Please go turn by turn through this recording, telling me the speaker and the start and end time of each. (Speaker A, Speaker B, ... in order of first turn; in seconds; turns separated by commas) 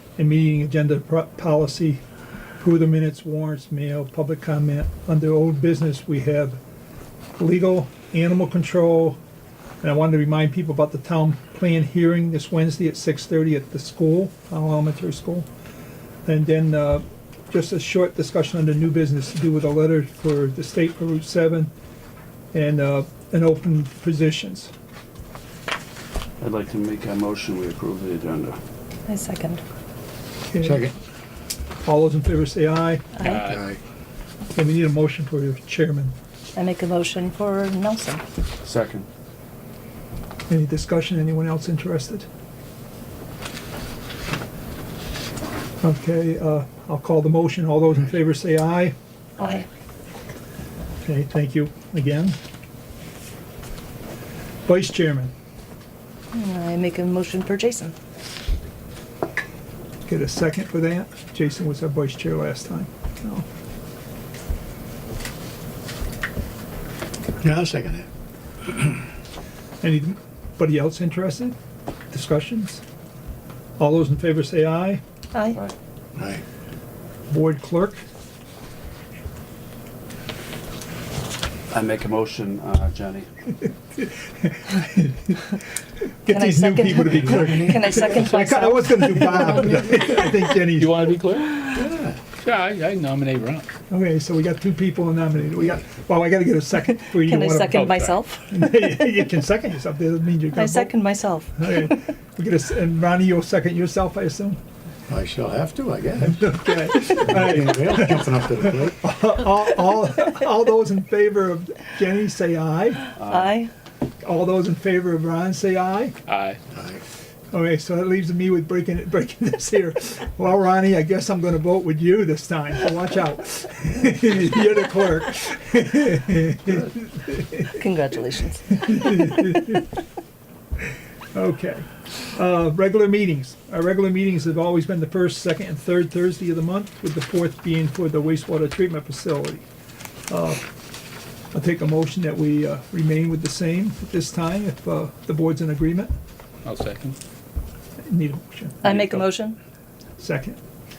Speaker A: 0.2-2.0, Speaker A: 2.6-6.6, Speaker A: 7.4-9.2, Speaker A: 9.8-15.5, Speaker A: 16.3-21.7, Speaker A: 22.5-24.7, Speaker B: 26.4-28.6, Speaker C: 29.1-29.6, Speaker A: 30.5-30.8, Speaker D: 30.6-30.9, Speaker A: 31.8-33.1, Speaker C: 33.2-33.5, Speaker E: 33.2-33.6, Speaker D: 33.4-33.8, Speaker A: 34.5-36.1, Speaker C: 36.6-38.3, Speaker B: 38.6-39.1, Speaker A: 40.5-42.3, Speaker A: 45.8-49.0, Speaker C: 49.4-49.6, Speaker A: 51.0-52.4, Speaker A: 54.7-55.3, Speaker C: 56.3-58.0, Speaker A: 60.0-63.5, Speaker D: 67.4-68.1, Speaker A: 69.8-71.6, Speaker A: 72.1-72.8, Speaker A: 73.8-75.0, Speaker D: 76.2-76.4, Speaker A: 77.3-78.0, Speaker B: 81.7-83.3, Speaker A: 84.0-85.6, Speaker A: 86.3-91.1, Speaker C: 86.3-89.8, Speaker D: 87.0-88.7, Speaker E: 90.7-91.8, Speaker D: 91.7-92.2, Speaker E: 92.4-93.7, Speaker A: 93.9-97.9, Speaker C: 97.1-98.5, Speaker E: 97.7-98.2, Speaker A: 98.5-101.0, Speaker C: 100.5-102.0, Speaker A: 101.6-104.6, Speaker D: 105.1-109.0, Speaker A: 106.3-113.2, Speaker B: 113.2-113.5, Speaker C: 113.2-113.7, Speaker A: 114.2-116.2, Speaker E: 116.3-116.6, Speaker D: 116.7-117.0, Speaker A: 117.5-127.8, Speaker C: 127.7-129.5, Speaker A: 128.7-129.8, Speaker A: 131.3-139.7, Speaker A: 140.3-140.7, Speaker A: 141.5-146.1, Speaker E: 146.7-147.2, Speaker A: 148.0-148.9, Speaker C: 148.8-149.6, Speaker A: 150.2-150.6